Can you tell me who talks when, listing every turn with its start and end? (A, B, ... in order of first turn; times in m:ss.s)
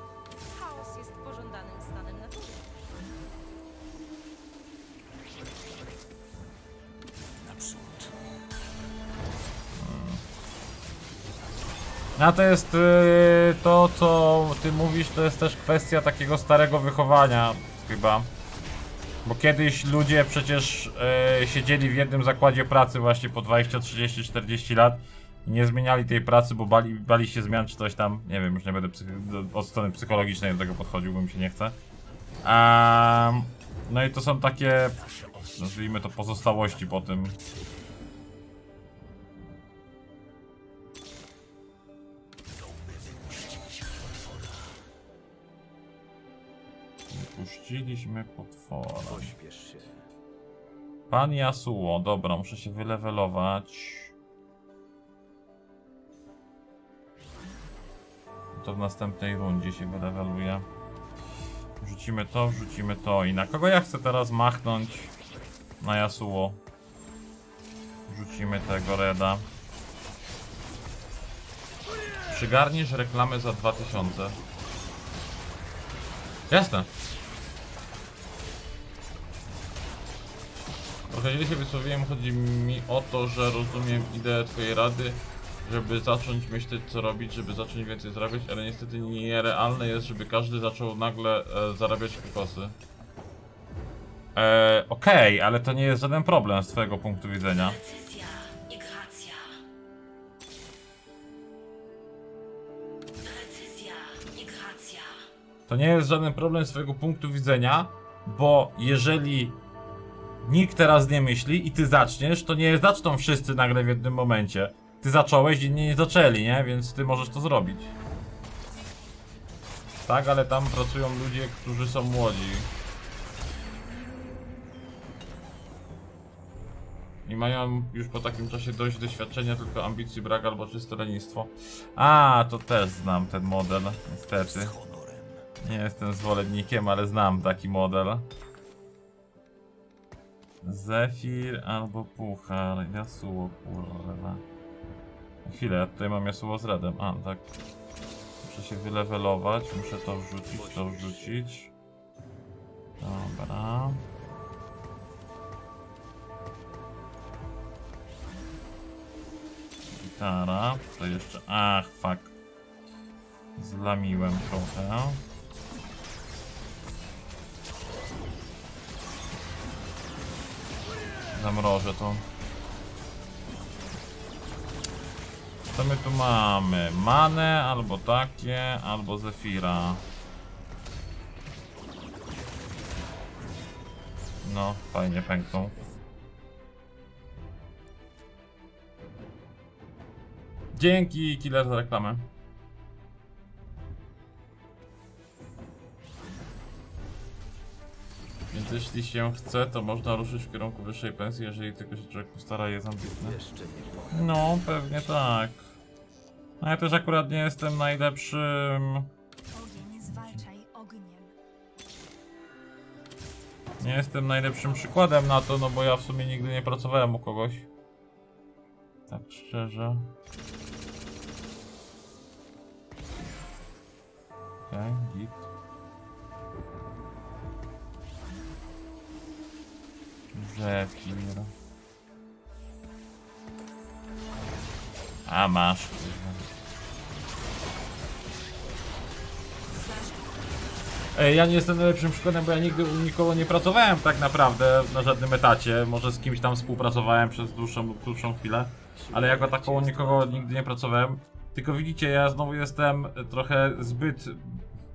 0:00.5-0:02.7 A
0:07.3-0:08.2 B
0:09.8-0:10.2 C
0:12.2-0:18.3 C
0:19.2-0:31.8 C
0:32.4-0:35.0 C
0:35.0-0:37.8 B
0:35.5-0:37.4 C
0:42.5-0:44.8 B
0:47.1-0:49.3 C
0:49.1-0:50.0 B
0:51.1-0:54.1 C
0:58.5-1:00.7 C
1:01.8-1:05.1 C
1:05.8-1:06.6 C
1:08.1-1:09.5 C
1:12.3-1:14.4 C
1:16.5-1:16.9 C
1:21.1-1:32.8 C
1:34.3-1:37.8 C
1:37.5-1:39.6 A
1:43.2-1:45.2 A
1:45.7-1:49.6 C
1:50.4-1:57.9 C
2:00.0-2:02.7 C
2:07.2-2:14.7 C
2:14.4-2:15.4 B
2:15.6-2:18.3 C
2:20.6-2:24.4 C
2:25.4-2:27.5 C
2:28.4-2:31.7 C
2:30.5-2:31.4 B
2:33.0-2:34.0 C
2:40.0-2:42.3 C
2:43.6-2:45.2 C
2:51.3-2:52.2 C
2:55.7-3:00.0 C
3:04.4-3:05.7 C
3:10.7-3:12.3 C
3:18.5-3:23.4 C
3:23.0-3:25.0 B
3:24.1-3:25.6 C
3:26.6-3:29.1 C
3:30.0-3:30.4 C
3:30.5-3:31.2 A
3:33.8-3:37.7 C
3:39.1-3:40.1 C
3:44.7-3:45.5 C
3:50.3-3:51.5 C
3:55.2-3:56.4 C
4:01.1-4:14.6 C
4:08.9-4:10.6 B